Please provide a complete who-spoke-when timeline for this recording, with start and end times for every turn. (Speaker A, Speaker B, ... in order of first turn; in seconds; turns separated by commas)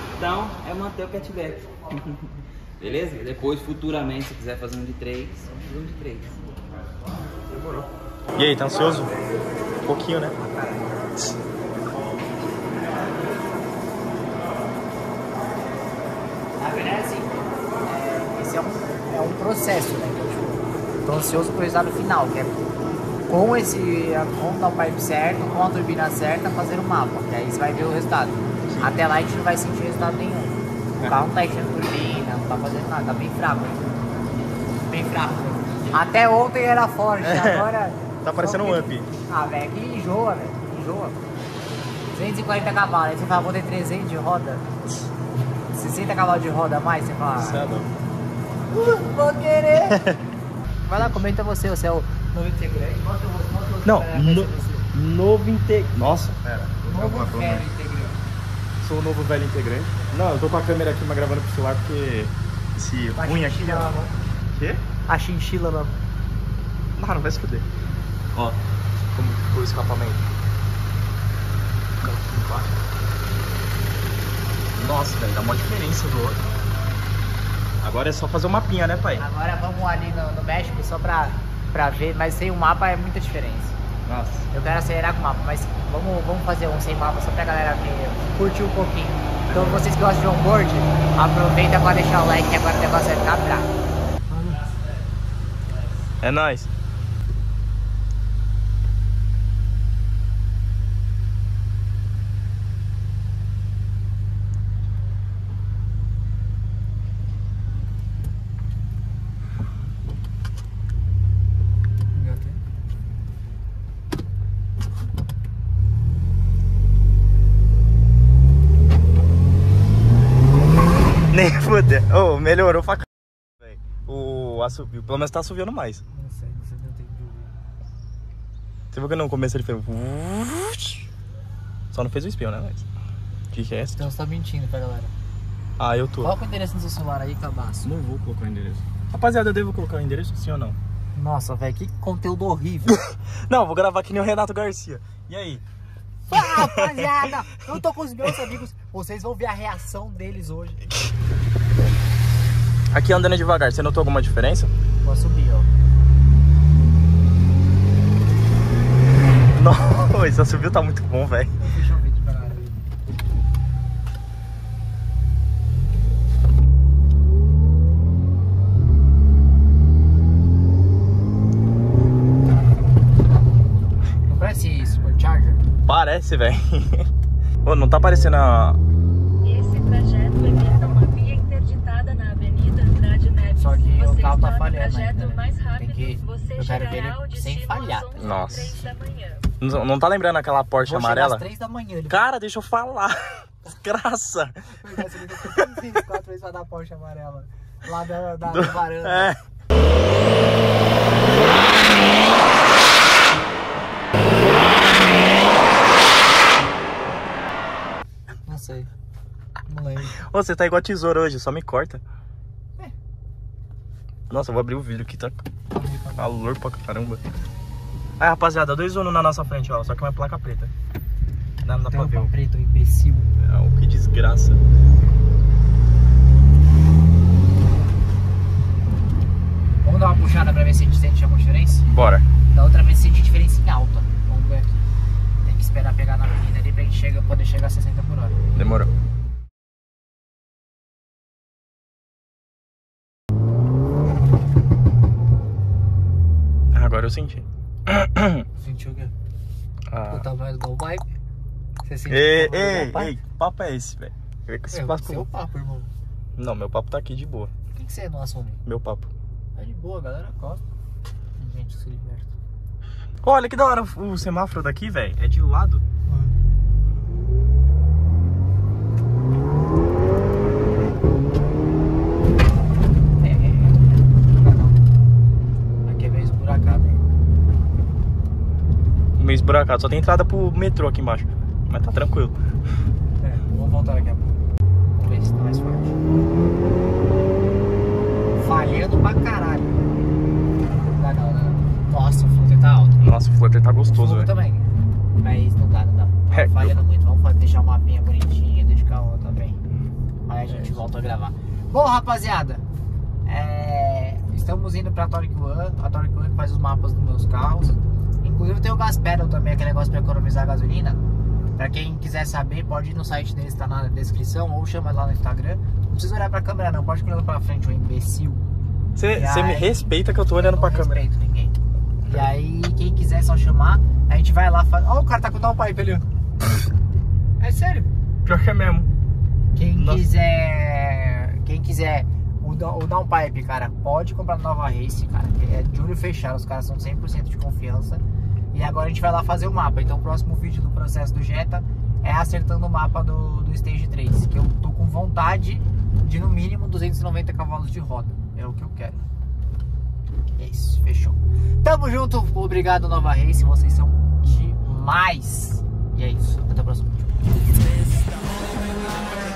Speaker A: 0.2-6.4, Speaker B: 7.5-9.1, Speaker B: 9.8-10.4, Speaker C: 10.5-10.8, Speaker C: 16.6-22.7, Speaker C: 23.3-33.9, Speaker C: 34.9-41.2, Speaker B: 37.2-37.7, Speaker B: 38.2-39.1, Speaker C: 42.1-44.7, Speaker C: 45.7-47.7, Speaker B: 47.4-47.9, Speaker C: 48.7-50.1, Speaker B: 49.9-50.2, Speaker C: 50.9-54.9, Speaker B: 51.0-51.3, Speaker B: 53.9-57.7, Speaker C: 56.9-58.2, Speaker B: 58.8-64.0, Speaker C: 63.2-64.1, Speaker B: 64.5-64.8, Speaker C: 65.1-66.0, Speaker B: 67.0-67.7, Speaker B: 68.3-70.3, Speaker B: 72.0-72.7, Speaker B: 74.8-76.5, Speaker B: 77.8-79.2, Speaker C: 79.2-83.8, Speaker B: 84.1-84.5, Speaker C: 84.5-93.7, Speaker B: 89.5-89.9, Speaker C: 94.3-94.7, Speaker B: 96.2-96.7, Speaker C: 112.1-112.6, Speaker B: 121.3-123.1, Speaker B: 123.6-126.0, Speaker C: 126.1-127.6, Speaker B: 128.9-131.1, Speaker B: 131.9-132.9, Speaker B: 133.5-134.1, Speaker C: 133.9-135.1, Speaker B: 135.8-136.3, Speaker C: 136.2-137.9, Speaker B: 137.8-140.8, Speaker C: 141.2-143.0, Speaker B: 142.9-145.6, Speaker C: 146.3-150.9, Speaker B: 146.3-146.9, Speaker B: 152.9-154.7, Speaker C: 155.0-155.7, Speaker B: 159.5-161.5, Speaker C: 161.6-162.8, Speaker C: 174.3-175.6, Speaker B: 175.9-177.1, Speaker B: 177.7-178.8, Speaker D: 179.4-189.5, Speaker C: 183.5-189.0, Speaker B: 188.2-188.8, Speaker B: 189.6-191.5, Speaker C: 190.8-192.2, Speaker B: 192.1-194.7, Speaker C: 194.7-199.3, Speaker B: 195.4-195.7, Speaker B: 198.5-199.4, Speaker C: 208.5-208.9, Speaker C: 209.7-210.2, Speaker B: 210.2-212.0, Speaker B: 214.3-215.4, Speaker C: 215.7-216.4, Speaker B: 216.2-217.2, Speaker B: 218.2-220.7, Speaker B: 221.6-222.3, Speaker C: 221.9-223.3, Speaker B: 223.4-224.6, Speaker C: 229.8-231.9, Speaker B: 231.9-232.3, Speaker C: 232.5-234.9, Speaker C: 235.4-238.4, Speaker B: 238.6-238.9, Speaker B: 246.7-248.4, Speaker C: 248.6-249.1, Speaker B: 249.9-250.3, Speaker C: 250.1-251.1, Speaker C: 251.8-253.2, Speaker B: 252.1-255.3, Speaker C: 254.7-255.9, Speaker B: 256.4-257.5, Speaker C: 257.7-258.6, Speaker B: 258.7-259.1, Speaker C: 259.6-260.6, Speaker C: 261.4-262.3, Speaker B: 263.2-265.8, Speaker C: 266.1-266.4, Speaker C: 273.2-274.8, Speaker C: 275.9-277.0, Speaker B: 279.2-282.3, Speaker C: 283.2-284.3, Speaker C: 284.9-286.0, Speaker C: 288.4-289.9, Speaker C: 290.8-293.1, Speaker B: 293.0-294.3, Speaker C: 293.9-294.7, Speaker C: 295.2-299.6, Speaker B: 296.3-296.8, Speaker C: 300.3-302.6, Speaker B: 300.5-300.8, Speaker C: 303.2-311.0, Speaker C: 311.6-318.5, Speaker B: 319.0-321.0, Speaker C: 319.1-319.8, Speaker C: 320.3-321.5, Speaker C: 322.1-326.1, Speaker C: 327.4-327.9, Speaker B: 328.2-328.9, Speaker C: 329.5-349.0, Speaker B: 329.7-330.1, Speaker C: 350.4-357.1